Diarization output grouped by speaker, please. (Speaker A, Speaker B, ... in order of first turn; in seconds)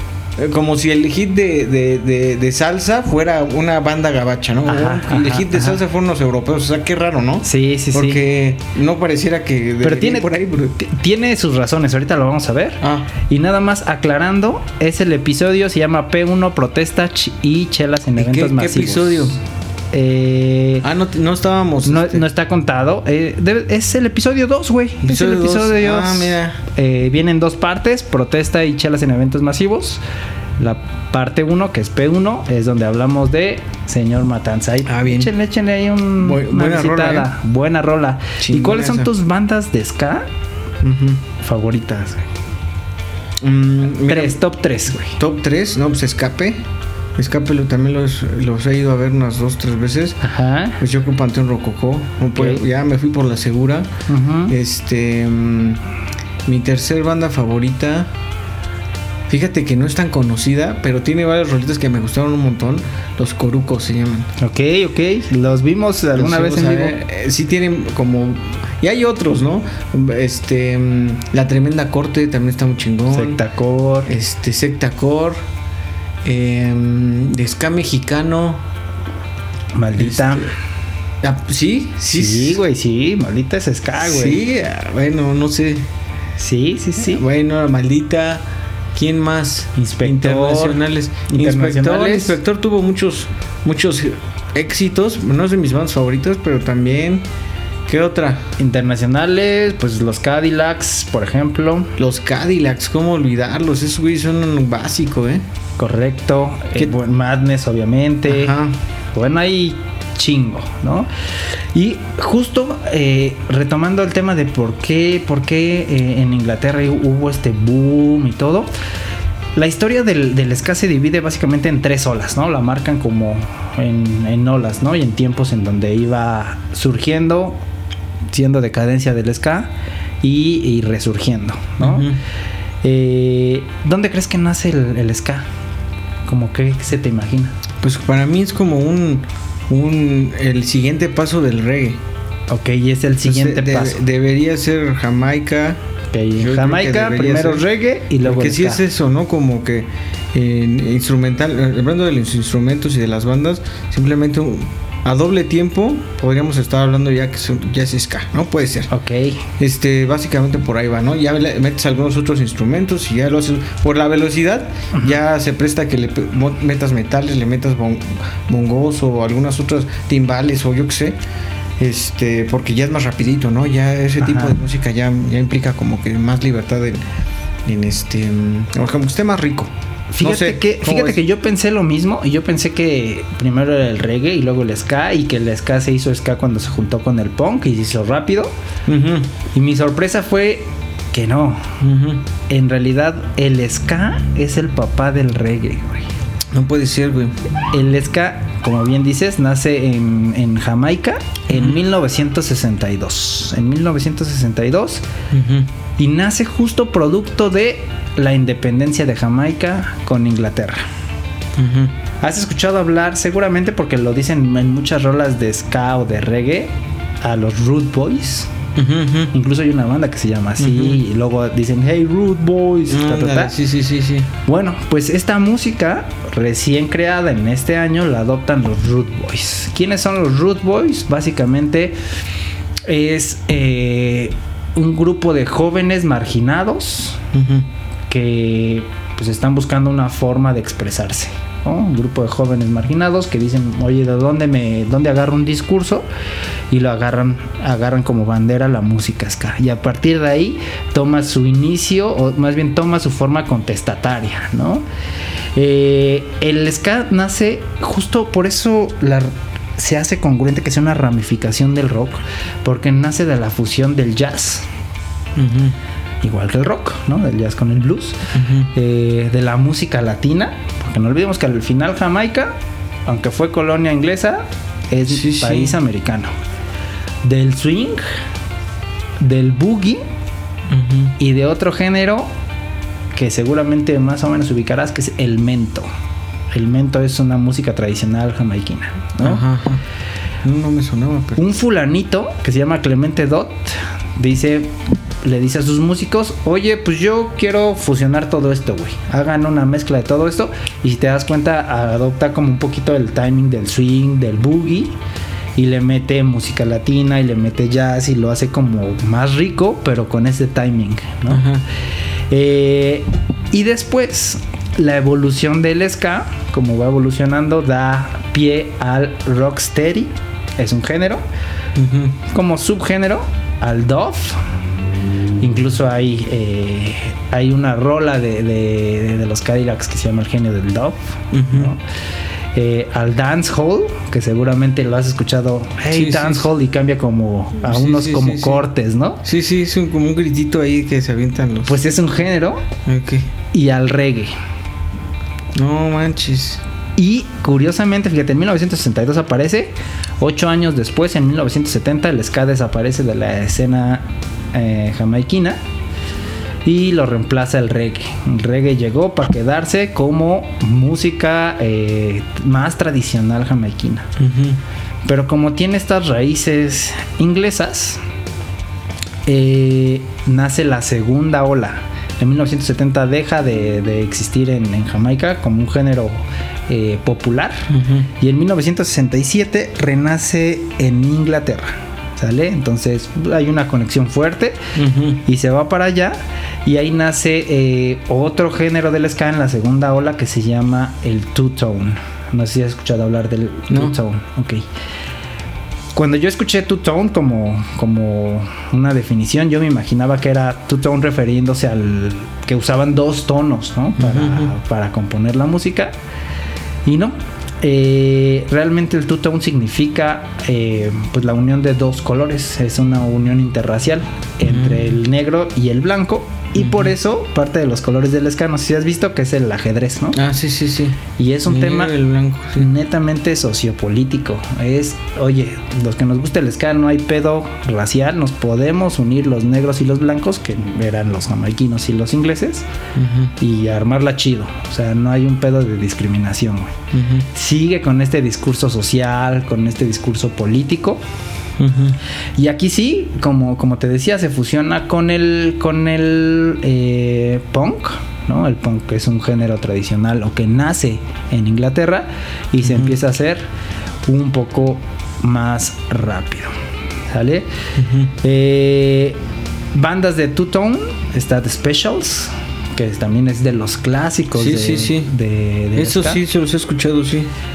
Speaker A: 0.4-10.8, 12.8-13.1, 18.2-19.4, 20.8-22.2, 25.1-26.6, 34.9-35.3, 36.2-37.3, 38.4-39.1, 40.8-41.2, 43.4-44.4, 45.1-46.6, 47.2-50.2, 50.8-53.9, 54.5-55.8, 56.5-58.1, 59.3-64.3, 66.2-73.4, 74.1-75.4, 76.2-78.6, 80.0-80.5, 81.2-82.6, 84.0-85.9, 87.0-97.2, 97.9-98.4, 102.0-105.4, 108.3-108.8, 131.8-132.2, 137.8-142.0, 143.2-145.8, 146.4-147.6, 148.2-158.9, 159.6-171.2, 171.8-177.0, 177.7-181.2, 188.9-189.3, 191.8-192.3, 196.5-197.3, 201.5-201.8, 205.3-205.7, 211.6-211.9, 218.8-219.3, 220.6-221.0, 222.9-224.3, 237.3-237.7, 265.4-265.8, 268.3-268.7, 275.1-275.8, 280.7-281.1, 289.2-289.8, 290.4-291.4, 311.3-311.6, 321.8-322.2, 331.3-331.7, 335.9-336.5, 337.6-338.7, 339.2-341.8, 342.9-343.3, 345.6-346.6, 364.2-364.6, 377.7-378.1, 384.8-385.2, 393.7-394.0, 404.0-404.5, 414.5-414.9, 416.6-416.9, 420.1-422.7, 432.9-433.3, 436.9-437.3, 441.6-442.0, 452.6-452.9, 457.8-458.1, 464.3-465.1, 465.8-467.3
Speaker B: 4.7-5.8, 7.4-8.2, 9.8-19.4, 19.9-20.9, 21.9-30.0, 30.6-40.3, 41.4-42.2, 44.0-45.2, 50.2-50.8, 52.4-52.6, 54.1-54.6, 64.4-67.0, 73.1-74.2, 79.8-80.5, 82.1-84.4, 86.4-87.2, 89.8-92.4, 98.6-101.9, 105.8-108.6, 109.1-111.1, 111.7-118.7, 119.6-127.6, 128.3-132.1, 132.8-135.5, 136.3-137.6, 142.5-144.0, 146.1-148.8, 158.9-159.5, 174.2-174.6, 180.1-188.5, 189.5-191.8, 192.5-196.1, 197.7-205.0, 206.0-210.8, 212.2-218.5, 219.3-223.6, 224.4-232.0, 232.9-237.3, 238.1-246.1, 246.7-254.8, 255.6-264.7, 266.2-268.2, 268.7-272.5, 273.1-276.3, 277.2-278.0, 279.2-280.0, 281.2-282.3, 283.1-285.9, 286.5-289.4, 291.4-305.0, 305.6-311.5, 312.3-321.2, 322.3-324.4, 325.4-331.8, 332.6-339.2, 341.7-342.6, 343.5-344.3, 347.0-355.6, 356.6-364.1, 365.1-368.0, 369.3-384.6, 385.2-394.6, 395.9-405.9, 406.9-420.2, 421.2-422.0, 422.6-432.7, 433.4-436.7, 437.3-441.0, 442.4-453.4, 454.1-456.5, 457.1-457.5, 458.2-459.2, 459.7-466.2